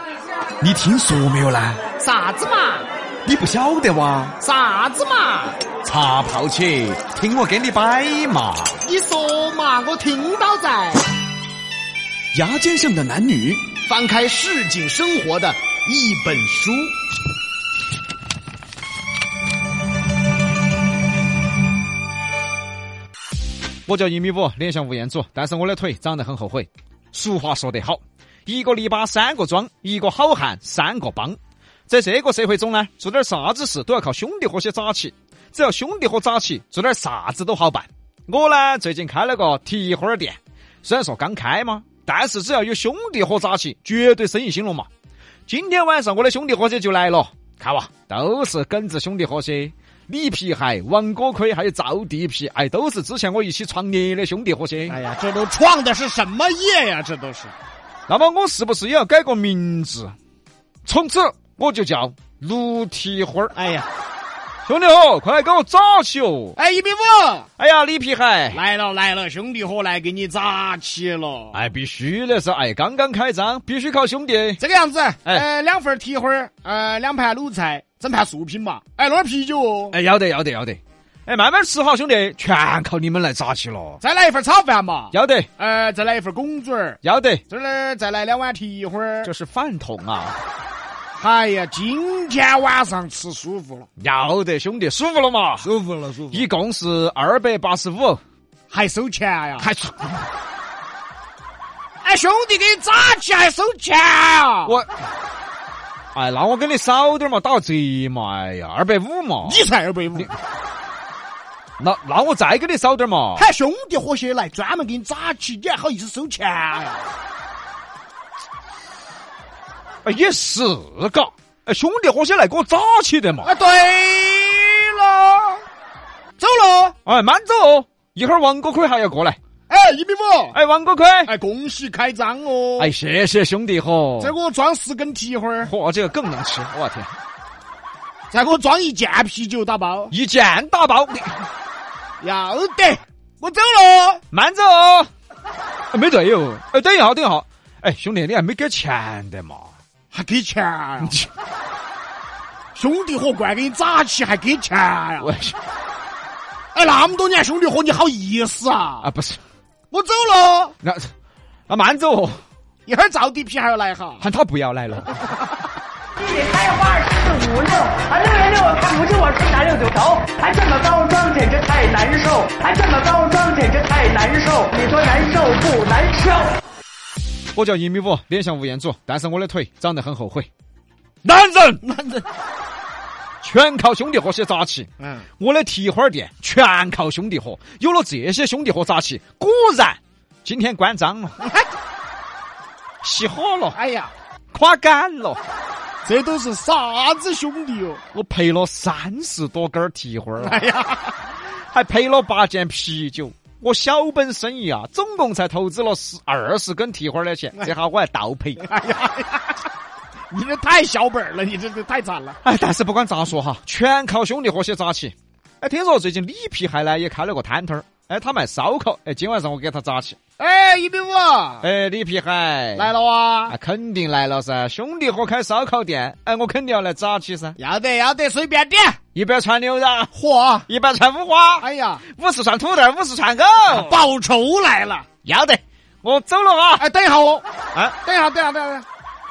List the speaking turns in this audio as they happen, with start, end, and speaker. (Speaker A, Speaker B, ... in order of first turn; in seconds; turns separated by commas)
Speaker A: 0.6-1.8, Speaker B: 2.0-2.9, Speaker A: 3.2-4.4, Speaker B: 4.4-5.6, Speaker A: 5.8-8.8, Speaker B: 8.8-11.1, Speaker A: 12.3-13.7, Speaker B: 13.8-16.9, Speaker A: 23.9-44.9, Speaker A: 45.5-55.0, Speaker B: 54.9-57.5, Speaker A: 58.1-60.1, Speaker A: 60.9-63.6, Speaker B: 63.5-63.9, Speaker A: 64.7-66.6, Speaker B: 66.6-67.5, Speaker A: 67.6-68.6, Speaker B: 68.5-71.6, Speaker A: 71.5-74.6, Speaker B: 74.6-80.0, Speaker A: 79.9-84.0, Speaker B: 84.0-89.3, Speaker A: 85.1-85.5, Speaker A: 87.0-87.4, Speaker A: 89.2-90.4, Speaker B: 91.1-93.9, Speaker A: 94.0-95.7, Speaker B: 95.6-96.5, Speaker A: 96.3-98.2, Speaker B: 98.7-99.7, Speaker A: 99.6-100.2, Speaker B: 102.0-104.8, Speaker A: 104.7-104.9, Speaker A: 106.1-109.6, Speaker B: 109.5-110.3, Speaker A: 111.8-113.5, Speaker B: 113.4-117.1, Speaker A: 120.0-123.5, Speaker B: 123.4-125.6, Speaker B: 126.4-127.0, Speaker A: 127.0-129.4, Speaker B: 129.7-130.6, Speaker A: 130.5-131.3, Speaker B: 131.2-132.9, Speaker A: 132.8-134.3, Speaker B: 134.2-135.7, Speaker A: 135.6-137.1, Speaker B: 138.3-140.2, Speaker A: 140.1-141.5, Speaker B: 142.2-144.2, Speaker A: 144.3-145.1, Speaker A: 145.9-149.7, Speaker B: 150.1-151.2, Speaker A: 151.0-151.3, Speaker B: 152.7-155.3, Speaker A: 155.2-155.6, Speaker B: 156.7-159.1, Speaker A: 159.0-159.4, Speaker B: 159.9-160.8, Speaker A: 160.8-161.1, Speaker A: 161.7-162.4, Speaker B: 162.9-164.3, Speaker A: 164.2-165.2, Speaker C: 166.2-176.5, Speaker A: 177.5-180.5, Speaker A: 181.2-181.8, Speaker B: 181.7-182.3, Speaker A: 183.4-184.9, Speaker B: 185.0-185.3, Speaker A: 185.4-191.4, Speaker A: 193.0-193.8, Speaker B: 193.7-194.1, Speaker A: 194.5-195.4, Speaker B: 196.0-198.0, Speaker A: 198.1-200.6, Speaker B: 200.4-201.2, Speaker A: 201.7-208.7, Speaker B: 208.6-209.6, Speaker B: 210.3-212.4, Speaker A: 212.4-220.2, Speaker B: 220.4-221.7, Speaker A: 221.6-222.9, Speaker B: 222.8-223.6, Speaker A: 223.5-227.6, Speaker B: 227.6-229.0, Speaker A: 229.2-230.1, Speaker B: 230.2-230.7, Speaker A: 230.7-234.0, Speaker B: 231.6-232.0, Speaker B: 233.7-235.1, Speaker A: 235.2-236.8, Speaker B: 236.8-237.4, Speaker B: 238.0-238.8